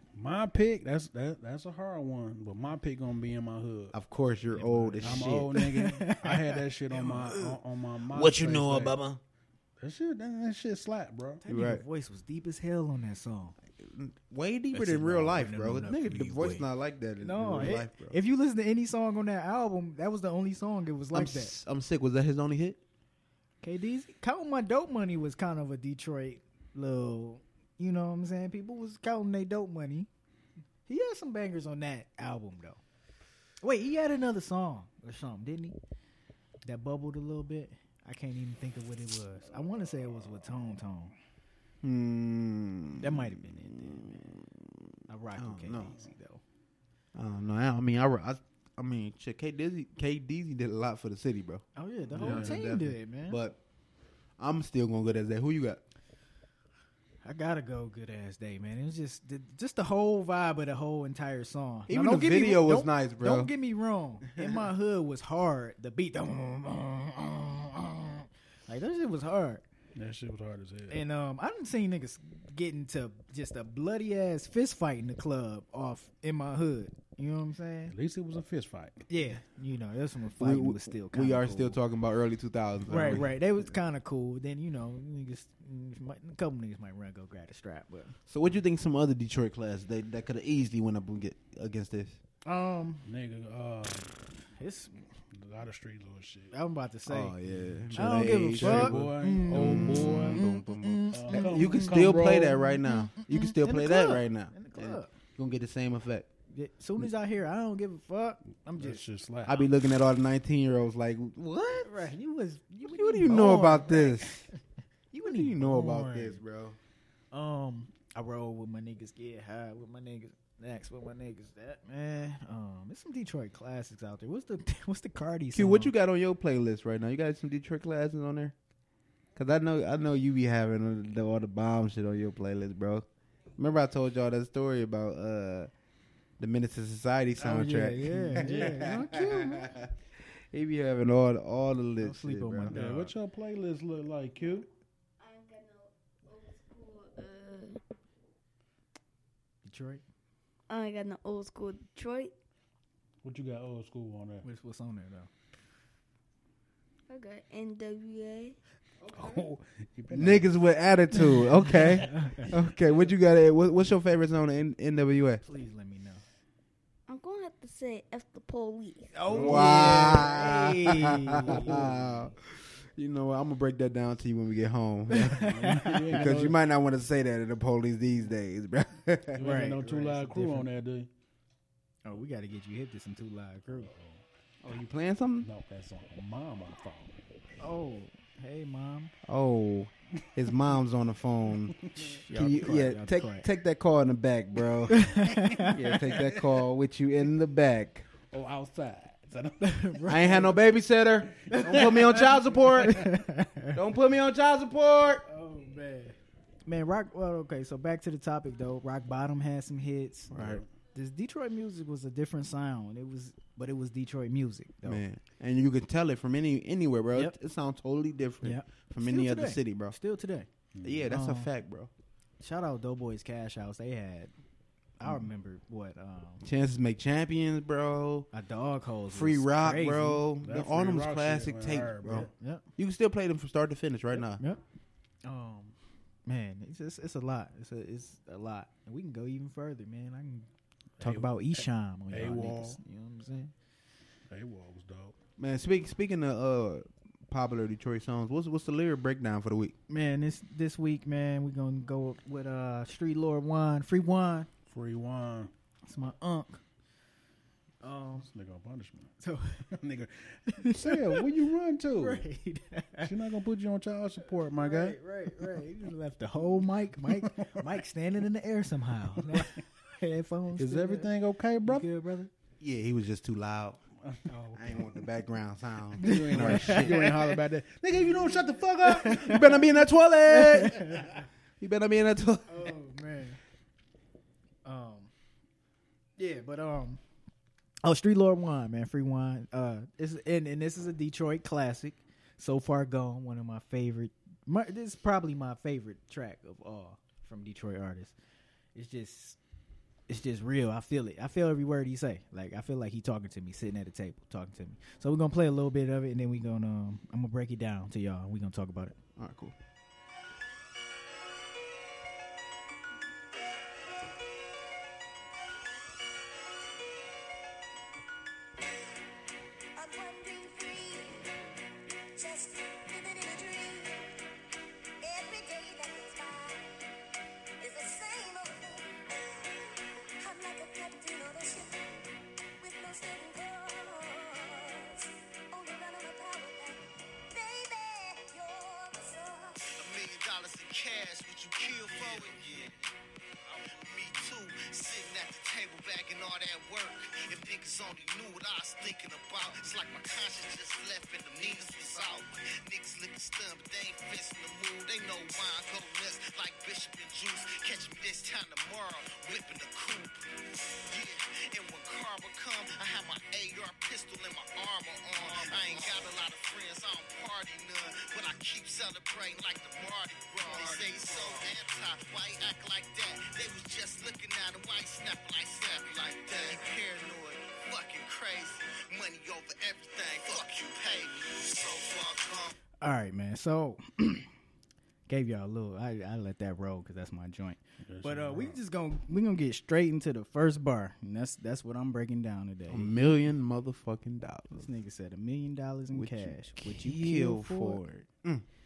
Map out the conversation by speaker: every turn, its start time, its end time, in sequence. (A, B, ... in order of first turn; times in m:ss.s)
0:00.2-0:04.0 A
0:03.9-0:05.6 B
0:04.6-0:07.6 C
0:05.0-0:09.0 A
0:08.1-0:09.2 B
0:09.8-0:11.4 A
0:11.4-0:13.6 C
0:11.5-0:11.8 B
0:13.8-0:18.2 B
0:14.7-0:16.7 C
0:17.2-0:21.5 C
0:21.1-0:22.8 B
0:23.6-0:30.1 C
0:30.9-0:32.8 C
0:33.6-0:35.8 C
0:36.6-0:41.1 C
0:41.8-0:44.8 B
0:43.0-0:44.2 C
0:45.1-0:46.4 C
0:45.4-0:46.0 B
0:47.2-0:53.6 B
0:51.8-0:53.4 C
0:52.2-0:52.6 A
0:54.4-0:55.8 B
0:57.2-1:09.6 C
1:01.9-1:03.5 B
1:04.2-1:04.7 B
1:10.0-1:11.0 A
1:10.9-1:17.9 C
1:17.9-1:19.0 A
1:19.1-1:21.8 C
1:20.4-1:23.4 B
1:22.9-1:28.2 C
1:28.3-1:32.2 B
1:32.4-1:33.0 C
1:33.1-1:34.1 A
1:34.6-1:34.9 C
1:35.3-1:36.5 A
1:36.5-1:37.4 C
1:37.1-1:46.3 B
1:37.5-1:40.4 A
1:37.9-1:45.1 C
1:41.1-1:42.6 A
1:46.5-1:49.0 C
1:48.8-1:49.7 A
1:49.4-1:52.1 B
1:51.8-1:54.6 C
1:52.8-1:54.5 B
1:55.1-1:56.4 C
1:55.2-1:56.8 B
1:57.3-2:05.9 C
2:05.5-2:08.6 B
2:09.4-2:13.1 B
2:13.6-2:15.7 B
2:16.4-2:20.0 B
2:17.4-2:19.7 C
2:18.3-2:18.9 A
2:20.5-2:22.8 B
2:22.0-2:23.1 C
2:22.7-2:24.7 A
2:25.2-2:27.8 D
2:29.6-2:30.0 C
2:30.7-2:32.3 D
2:33.2-2:34.4 A
2:34.4-2:35.3 C
2:37.1-2:38.6 D
2:39.0-2:39.4 B
2:39.1-2:40.5 A
2:40.1-2:45.4 B
2:41.2-2:42.5 C
2:42.5-2:43.0 A
2:45.4-2:46.2 C
2:47.1-2:49.1 D
2:49.1-2:52.3 C
2:49.3-2:50.1 A
2:49.3-2:59.5 B
2:55.1-2:56.2 C
2:55.4-2:56.6 A
2:59.4-3:01.1 A
2:59.4-3:00.7 C
3:02.0-3:03.9 C
3:03.9-3:04.2 A
3:04.6-3:05.5 B
3:05.4-3:07.2 A
3:07.6-3:09.1 C
3:09.2-3:15.1 B
3:11.8-3:12.1 A
3:12.0-3:13.5 C
3:14.9-3:15.8 C
3:15.1-3:16.6 A
3:15.6-3:18.1 B
3:18.3-3:20.4 A
3:19.6-3:20.6 C
3:20.1-3:23.1 B
3:21.4-3:22.3 A
3:21.5-3:23.8 C
3:23.7-3:25.2 B
3:25.3-3:35.0 C
3:30.3-3:30.6 B
3:30.4-3:30.6 A
3:34.8-3:40.0 B
3:38.4-3:40.5 C
3:40.8-3:41.0 A
3:40.8-3:41.9 B
3:41.1-3:41.5 C
3:42.4-3:44.3 C
3:45.0-3:46.4 C
3:46.4-3:48.3 B
3:48.3-3:50.2 C
3:49.1-3:54.4 B
3:50.4-3:52.3 A
3:52.2-3:52.6 C
3:55.2-4:00.5 C
4:01.0-4:03.5 C
4:01.0-4:02.8 A
4:04.3-4:05.2 A
4:05.4-4:09.7 B
4:09.9-4:14.5 C
4:14.7-4:15.5 A
4:15.8-4:16.6 C
4:17.8-4:18.3 C
4:18.2-4:19.1 A
4:19.2-4:19.7 C
4:19.7-4:22.2 A
4:20.5-4:21.3 C
4:22.0-4:23.1 C
4:23.0-4:25.6 A
4:24.6-4:31.1 C
4:27.0-4:27.8 A
4:29.2-4:29.6 A
4:30.6-4:31.9 A
4:31.7-4:32.3 C
4:32.6-4:33.8 B
4:34.3-4:34.8 C
4:34.5-4:37.0 B
4:36.0-4:39.6 A
4:36.0-4:37.3 C
4:38.1-4:39.6 C
4:39.0-4:42.7 B
4:40.3-4:41.2 C
4:42.5-4:43.4 C
4:44.6-4:45.1 C
4:46.2-4:47.0 C
4:47.8-4:58.2 C
4:58.8-4:59.4 C
5:00.1-5:09.0 C
5:09.2-5:09.5 B
5:19.8-5:21.3 E
5:19.8-5:21.0 D
5:22.2-5:24.2 E
5:25.0-5:26.7 E
5:27.6-5:29.4 E
5:30.2-5:31.8 E
5:30.2-5:31.1 D
5:32.6-5:39.7 E
5:32.6-5:34.3 D
5:39.8-5:42.9 F
5:41.8-5:42.7 B
5:43.5-6:00.2 F
5:51.3-5:52.2 B
6:00.9-6:22.5 F
6:05.2-6:06.2 B
6:10.4-6:11.6 B
6:16.2-6:16.7 B
6:22.8-6:24.3 C
6:25.1-6:33.0 C
6:27.9-6:28.6 A
6:32.7-6:34.7 B
6:34.5-6:37.9 C
6:35.9-6:38.4 B